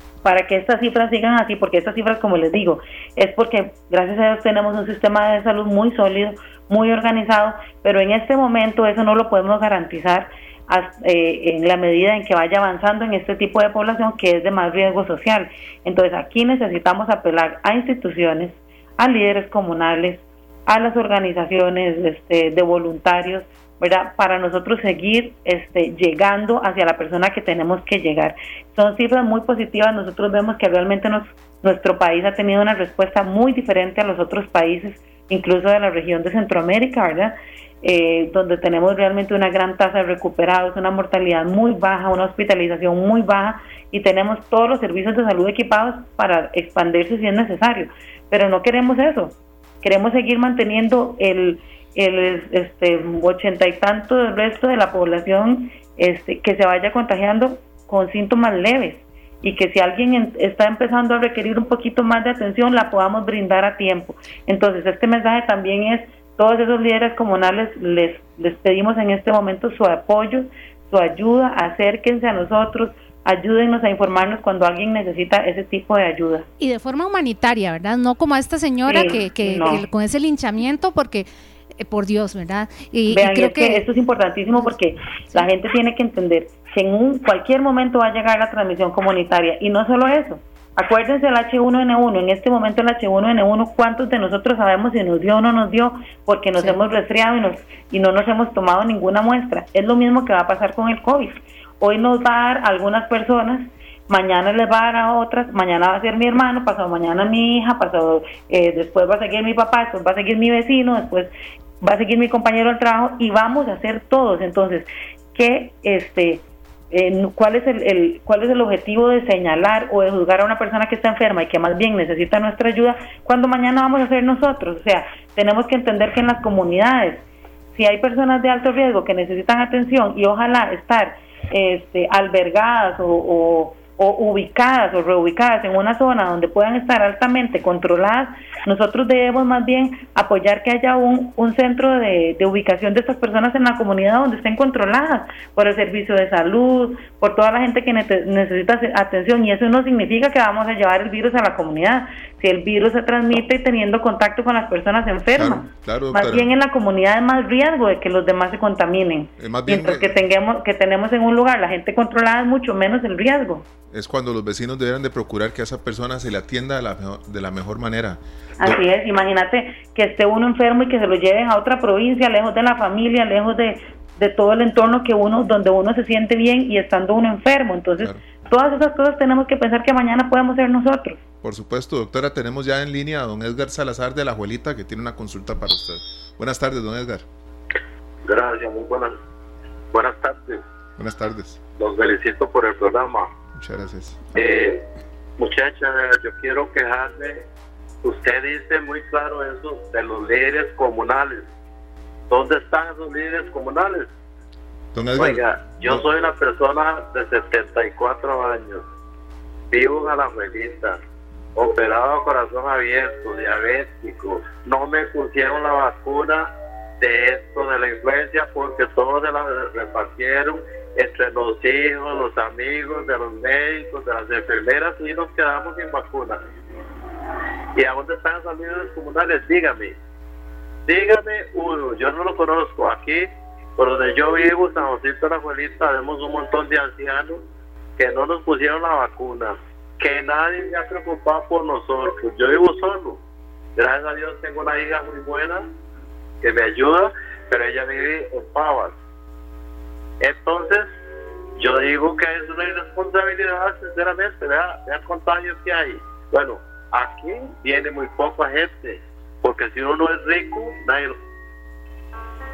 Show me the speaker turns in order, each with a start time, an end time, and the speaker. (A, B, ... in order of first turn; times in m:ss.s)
0:00.2-1:16.4 A
1:16.6-1:21.3 B
1:18.9-1:19.8 A
1:21.8-1:23.8 B
1:23.1-2:43.6 A
2:35.3-2:36.5 C
2:39.4-2:40.2 C
2:43.9-2:48.8 C
2:48.6-3:01.2 A
3:01.4-3:07.2 C
3:08.2-3:09.1 D
3:09.9-3:10.6 D
3:11.0-3:11.6 C
3:11.8-3:13.3 D
3:13.5-3:14.2 C
3:14.3-3:14.8 D
3:15.4-3:17.4 D
3:18.0-3:21.5 D
3:22.3-3:24.1 D
3:24.9-3:26.1 C
3:25.2-3:28.8 D
3:29.7-3:31.0 D
3:31.6-3:46.4 D
3:47.8-3:49.9 D
3:50.9-3:57.4 D
3:58.0-4:03.2 D
4:03.8-4:05.7 D
4:06.4-4:08.9 D
4:10.2-4:10.9 D
4:11.6-4:21.2 D